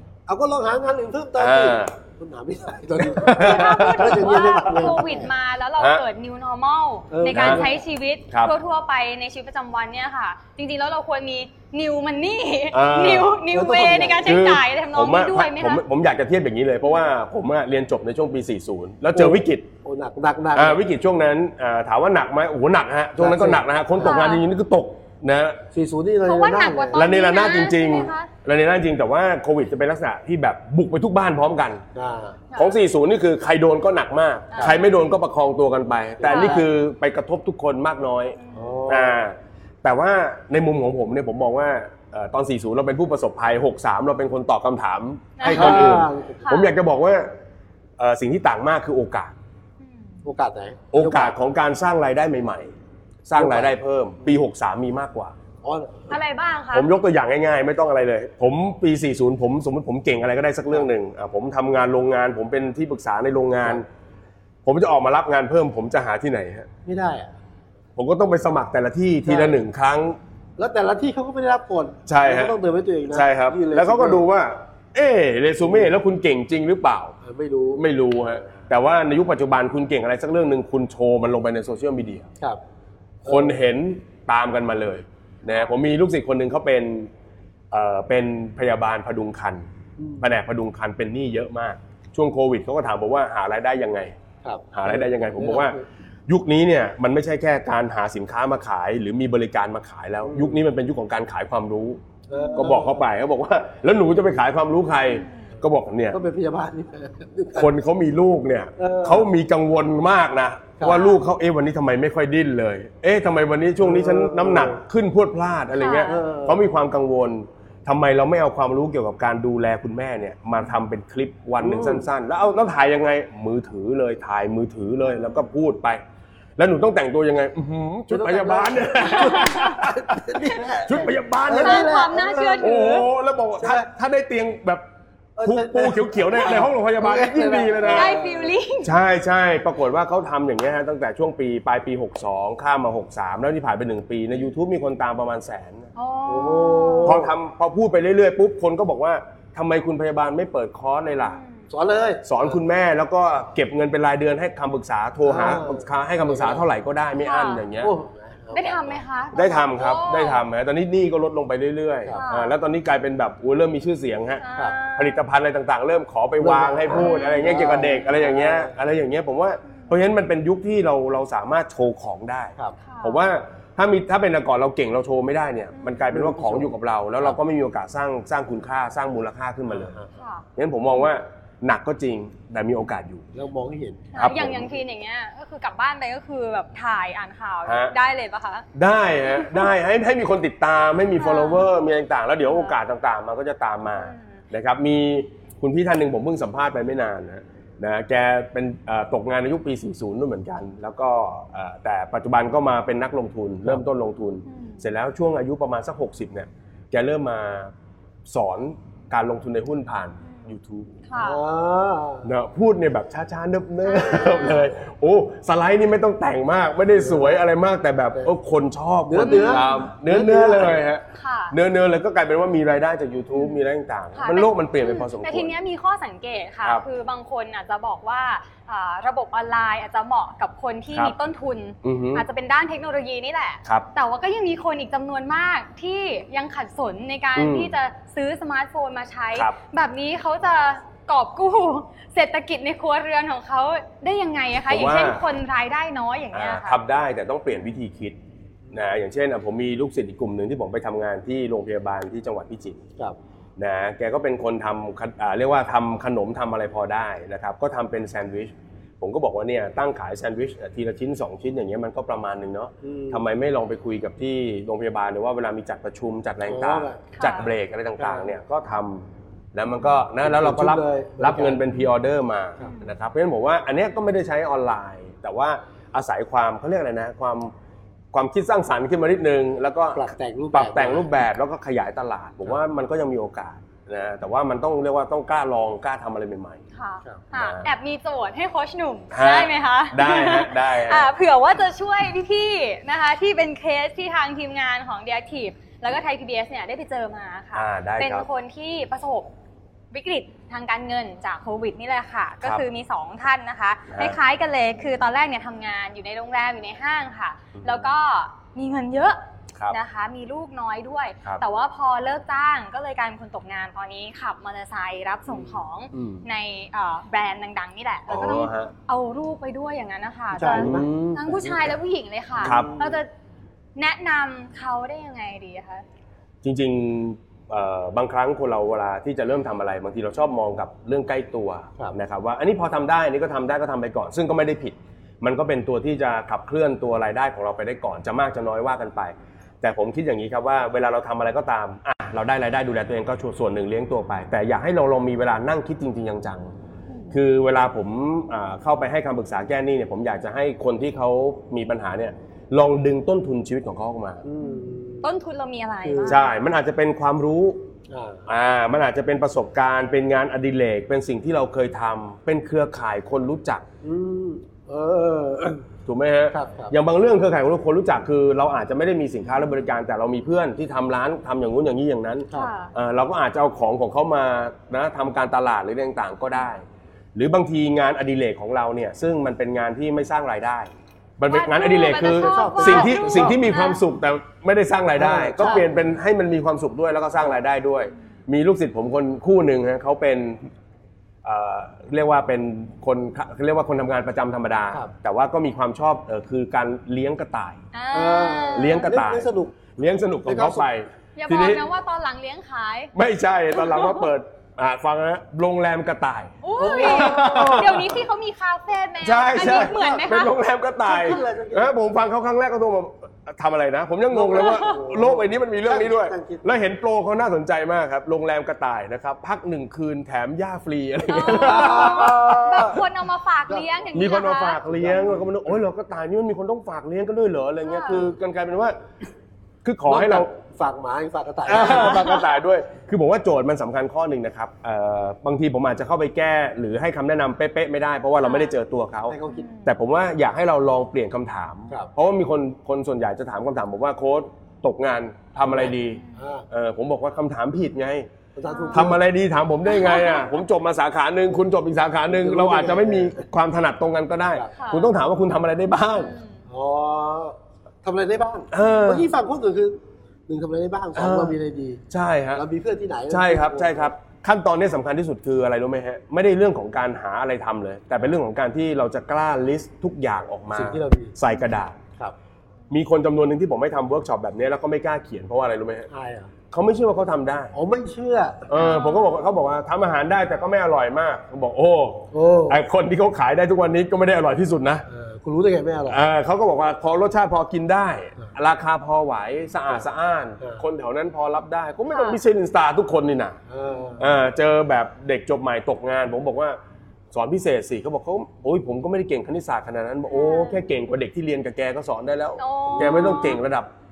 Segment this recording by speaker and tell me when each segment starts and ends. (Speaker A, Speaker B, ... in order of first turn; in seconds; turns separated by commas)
Speaker A: 0.3-5.3, Speaker B: 1.4-1.9, Speaker B: 3.0-4.9, Speaker C: 3.3-15.8, Speaker B: 5.8-6.0, Speaker A: 7.1-7.8, Speaker B: 7.3-7.7, Speaker B: 12.7-13.4, Speaker A: 13.5-14.4, Speaker B: 14.2-19.7, Speaker A: 19.1-20.8, Speaker B: 20.5-25.6, Speaker A: 23.2-23.6, Speaker C: 24.0-24.4, Speaker A: 25.7-27.1, Speaker C: 26.2-28.3, Speaker B: 26.9-31.8, Speaker A: 31.9-32.4, Speaker B: 32.5-38.4, Speaker C: 34.5-34.9, Speaker A: 36.2-36.6, Speaker C: 36.2-36.6, Speaker C: 38.4-38.8, Speaker A: 38.5-39.2, Speaker B: 38.9-47.3, Speaker C: 45.4-46.7, Speaker A: 45.4-46.5, Speaker B: 48.0-49.3, Speaker C: 49.8-50.1, Speaker A: 50.2-51.3, Speaker B: 50.9-52.7, Speaker B: 53.2-55.4, Speaker A: 53.4-53.8, Speaker A: 55.6-56.1, Speaker C: 56.1-56.9, Speaker B: 56.7-63.9, Speaker B: 64.6-66.7, Speaker A: 66.8-67.3, Speaker B: 68.0-70.2, Speaker A: 69.2-69.6, Speaker A: 70.6-74.2, Speaker B: 72.1-72.5, Speaker B: 73.1-77.1, Speaker A: 77.2-77.8, Speaker B: 77.8-82.3, Speaker A: 83.2-83.6, Speaker B: 83.2-87.1, Speaker C: 85.4-85.7, Speaker B: 87.7-89.7, Speaker A: 90.0-90.3, Speaker B: 90.2-94.2, Speaker A: 94.4-95.8, Speaker B: 94.7-102.0, Speaker A: 100.2-100.6, Speaker A: 102.3-103.0, Speaker C: 102.3-102.7, Speaker B: 102.5-106.2, Speaker C: 105.1-105.5, Speaker A: 105.6-107.7, Speaker B: 107.5-126.0, Speaker A: 108.8-109.3, Speaker C: 110.8-111.2, Speaker A: 113.8-114.8, Speaker C: 115.7-116.2, Speaker A: 116.0-116.6, Speaker A: 121.6-122.0, Speaker B: 126.6-131.9, Speaker A: 128.1-133.0, Speaker C: 129.0-129.8, Speaker C: 131.5-133.1, Speaker B: 132.6-134.8, Speaker A: 133.6-133.9, Speaker A: 135.4-138.5, Speaker B: 135.4-138.2, Speaker C: 137.9-139.0, Speaker B: 138.8-145.9, Speaker C: 145.9-147.2, Speaker A: 146.2-147.3, Speaker B: 147.0-151.4, Speaker C: 151.2-151.6, Speaker A: 151.7-152.6, Speaker B: 152.2-157.9, Speaker A: 155.2-156.7, Speaker C: 157.2-157.6, Speaker A: 157.8-159.0, Speaker C: 158.5-160.4, Speaker B: 159.3-180.0, Speaker C: 162.1-162.5, Speaker C: 164.4-165.2, Speaker A: 166.4-168.8, Speaker C: 166.9-168.2, Speaker C: 172.8-173.2, Speaker C: 175.8-176.0, Speaker A: 176.1-177.4, Speaker A: 179.7-180.1, Speaker C: 180.2-180.4, Speaker B: 180.6-183.2, Speaker A: 183.3-184.1, Speaker C: 184.1-188.7, Speaker B: 184.1-184.7, Speaker B: 187.7-187.9, Speaker B: 188.7-207.7, Speaker C: 189.4-189.6, Speaker C: 191.2-191.7, Speaker C: 192.4-192.8, Speaker C: 193.9-194.4, Speaker C: 204.5-204.8, Speaker B: 208.3-210.9, Speaker C: 210.2-210.5, Speaker C: 211.1-211.4, Speaker A: 211.2-212.3, Speaker B: 212.2-225.5, Speaker C: 213.8-214.7, Speaker A: 217.0-217.4, Speaker A: 219.1-220.8, Speaker C: 219.2-219.9, Speaker C: 221.1-221.5, Speaker C: 223.3-223.6, Speaker C: 224.2-246.8, Speaker B: 231.8-232.2, Speaker B: 237.3-237.7, Speaker B: 244.7-245.2, Speaker B: 246.3-248.2, Speaker B: 248.7-252.8, Speaker B: 253.6-277.5, Speaker A: 262.8-263.2, Speaker A: 266.5-267.0, Speaker C: 267.1-267.5, Speaker A: 268.0-268.3, Speaker A: 270.2-271.6, Speaker C: 272.6-272.9, Speaker B: 278.1-286.6, Speaker A: 279.9-281.1, Speaker C: 286.7-299.3, Speaker B: 287.3-287.7, Speaker B: 289.1-291.1, Speaker B: 297.5-298.3, Speaker C: 299.9-309.2, Speaker B: 303.9-304.2, Speaker B: 307.5-307.9, Speaker C: 309.7-323.1, Speaker A: 315.3-315.6, Speaker B: 315.9-316.2, Speaker B: 318.1-318.7, Speaker A: 320.3-320.9, Speaker B: 320.5-321.7, Speaker A: 322.4-323.0, Speaker B: 322.4-322.7, Speaker C: 323.8-325.8, Speaker B: 326.4-346.5, Speaker B: 347.1-354.2, Speaker A: 354.2-355.1, Speaker C: 354.4-356.3, Speaker A: 355.8-356.2, Speaker B: 356.0-357.6, Speaker A: 357.9-358.3, Speaker B: 358.3-363.6, Speaker A: 363.8-365.6, Speaker B: 365.9-390.5, Speaker A: 366.3-366.7, Speaker C: 372.3-372.7, Speaker C: 381.3-383.8, Speaker A: 382.0-383.4, Speaker A: 385.0-385.9, Speaker B: 391.2-397.6, Speaker C: 397.7-398.9, Speaker A: 397.9-399.6, Speaker B: 398.5-401.6, Speaker A: 400.2-400.7, Speaker C: 401.1-402.9, Speaker B: 402.9-408.0, Speaker C: 403.5-404.1, Speaker C: 406.4-410.4, Speaker A: 406.5-407.9, Speaker B: 409.0-422.8, Speaker A: 410.8-411.8, Speaker C: 410.9-411.2, Speaker A: 414.1-416.4, Speaker C: 414.3-414.8, Speaker C: 421.1-424.6, Speaker A: 421.2-422.8, Speaker A: 423.5-423.9, Speaker B: 423.9-428.8, Speaker A: 424.7-425.3, Speaker C: 427.6-428.0, Speaker B: 429.6-430.3, Speaker A: 429.9-432.2, Speaker B: 431.5-448.1, Speaker C: 431.5-432.3, Speaker C: 438.2-438.5, Speaker A: 439.1-439.5, Speaker C: 439.3-439.7, Speaker A: 445.4-446.5, Speaker C: 445.9-446.2, Speaker A: 448.3-449.0, Speaker C: 448.5-448.9, Speaker B: 448.7-456.1, Speaker C: 449.7-450.3, Speaker A: 452.1-453.2, Speaker C: 454.5-454.9, Speaker C: 455.9-456.4, Speaker A: 456.5-463.9, Speaker B: 458.5-459.1, Speaker B: 460.9-461.4, Speaker B: 461.9-462.4, Speaker B: 463.1-471.8, Speaker A: 470.5-471.1, Speaker B: 472.7-475.9, Speaker A: 475.9-476.3, Speaker B: 476.5-477.5, Speaker A: 477.5-478.7, Speaker B: 478.5-484.8, Speaker C: 478.5-479.2, Speaker A: 482.1-482.6, Speaker A: 484.9-486.0, Speaker B: 485.9-493.4, Speaker C: 491.9-492.2, Speaker A: 493.5-494.1, Speaker B: 494.0-496.6, Speaker B: 497.1-503.7, Speaker C: 500.1-500.6, Speaker C: 502.4-503.4, Speaker A: 502.7-503.1